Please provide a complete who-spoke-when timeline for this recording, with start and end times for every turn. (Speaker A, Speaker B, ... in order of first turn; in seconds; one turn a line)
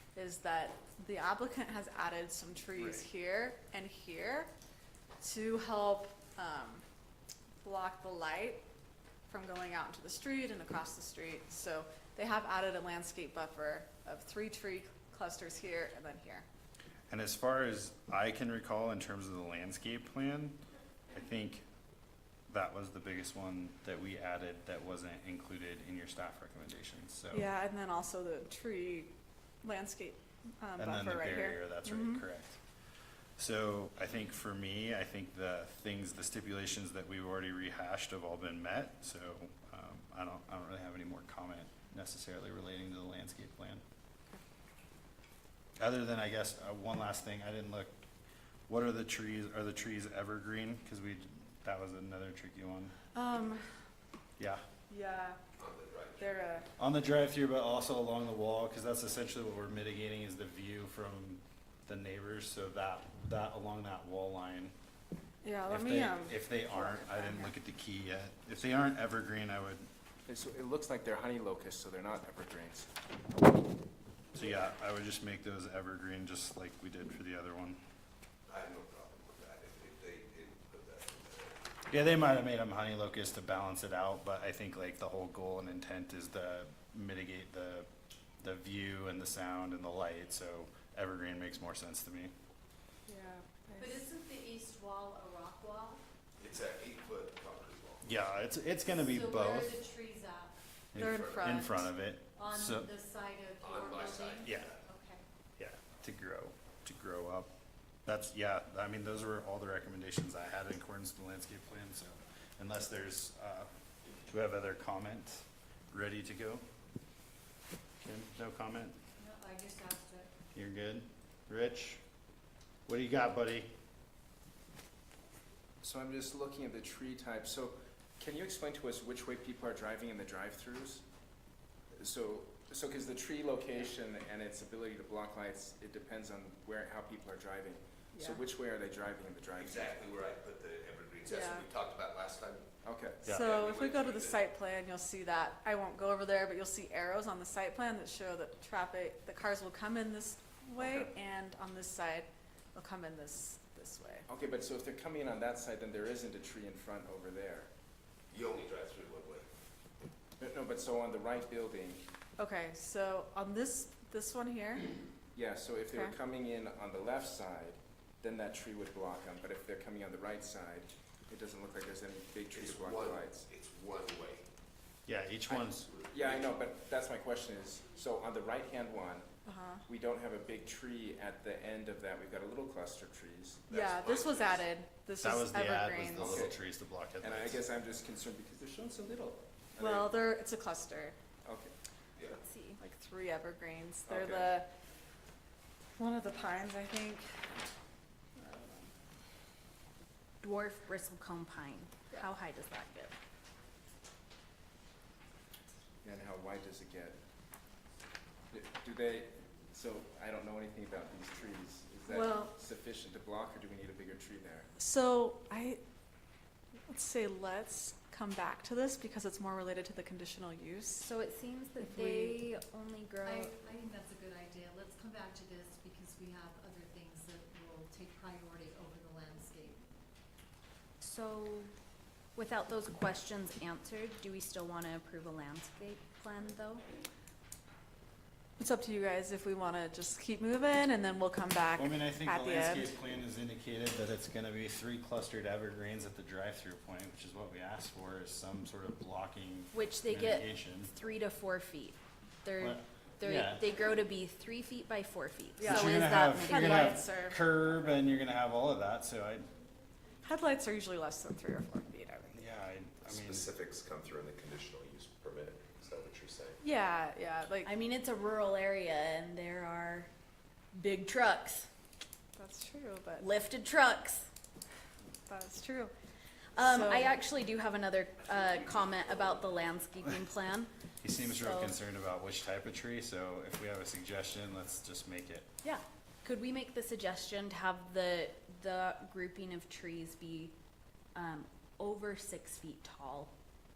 Speaker A: 0.1-4.5
Speaker B: 2.8-3.0
Speaker A: 5.2-6.8
Speaker A: 7.6-8.6
Speaker A: 9.3-16.4
Speaker B: 17.1-20.6
Speaker B: 21.1-21.6
Speaker B: 22.5-27.5
Speaker A: 27.3-29.1
Speaker A: 29.6-32.2
Speaker B: 30.8-32.6
Speaker B: 33.4-43.8
Speaker B: 45.8-48.0
Speaker B: 48.7-52.9
Speaker A: 53.1-53.7
Speaker B: 54.4-54.6
Speaker A: 54.9-55.4
Speaker C: 55.6-56.3
Speaker A: 56.2-56.6
Speaker B: 56.8-64.7
Speaker A: 65.4-67.5
Speaker B: 65.7-69.9
Speaker D: 70.3-72.9
Speaker B: 74.3-77.8
Speaker C: 78.5-81.6
Speaker B: 81.9-87.9
Speaker B: 88.4-92.3
Speaker A: 93.1-94.0
Speaker E: 93.8-96.0
Speaker C: 96.4-98.1
Speaker B: 98.0-99.8
Speaker E: 98.9-100.5
Speaker B: 100.9-102.9
Speaker A: 101.0-101.9
Speaker C: 101.0-101.5
Speaker E: 102.3-105.2
Speaker C: 103.6-104.8
Speaker B: 104.4-104.7
Speaker B: 105.6-107.5
Speaker B: 108.0-113.7
Speaker B: 114.2-116.6
Speaker B: 118.0-119.0
Speaker E: 119.2-120.3
Speaker B: 120.5-122.0
Speaker B: 122.8-123.7
Speaker D: 125.8-131.0
Speaker D: 131.9-140.0
Speaker A: 138.1-138.4
Speaker C: 139.5-142.7
Speaker A: 141.2-141.7
Speaker D: 142.8-143.2
Speaker A: 143.2-154.3
Speaker C: 143.3-144.4
Speaker D: 150.8-151.1
Speaker D: 154.3-157.7
Speaker C: 158.3-159.5
Speaker D: 160.4-162.0
Speaker A: 162.4-165.0
Speaker D: 165.3-173.5
Speaker C: 172.5-174.4
Speaker B: 175.1-175.8
Speaker D: 175.5-179.3
Speaker C: 175.8-176.6
Speaker A: 179.4-179.8
Speaker D: 179.8-183.8
Speaker C: 183.7-184.6
Speaker A: 183.7-186.5
Speaker B: 185.2-187.6
Speaker D: 186.2-186.6
Speaker D: 187.2-190.1
Speaker A: 189.8-191.1
Speaker D: 191.4-191.7
Speaker F: 192.4-192.8
Speaker A: 192.8-194.7
Speaker D: 194.1-194.5
Speaker A: 196.0-197.2
Speaker A: 198.4-198.9
Speaker F: 200.4-203.1
Speaker D: 206.0-207.2
Speaker D: 208.5-214.7
Speaker A: 212.1-212.5
Speaker A: 214.8-215.8
Speaker A: 216.9-221.1
Speaker F: 221.0-223.5
Speaker A: 221.8-222.4
Speaker E: 223.2-229.8
Speaker F: 231.0-231.7
Speaker F: 232.3-236.8
Speaker A: 238.6-243.0
Speaker B: 241.8-250.9
Speaker F: 249.7-257.0
Speaker B: 252.6-253.7
Speaker A: 255.6-257.5
Speaker B: 255.6-259.4
Speaker A: 260.2-262.4
Speaker B: 262.3-263.5
Speaker C: 263.1-266.6
Speaker A: 266.6-267.7
Speaker F: 267.6-270.1
Speaker F: 270.7-271.7
Speaker A: 272.4-273.3
Speaker F: 273.2-274.3
Speaker A: 275.3-275.9
Speaker F: 276.6-281.8
Speaker A: 276.6-277.1
Speaker B: 281.0-285.5
Speaker F: 285.6-290.5
Speaker F: 291.1-293.3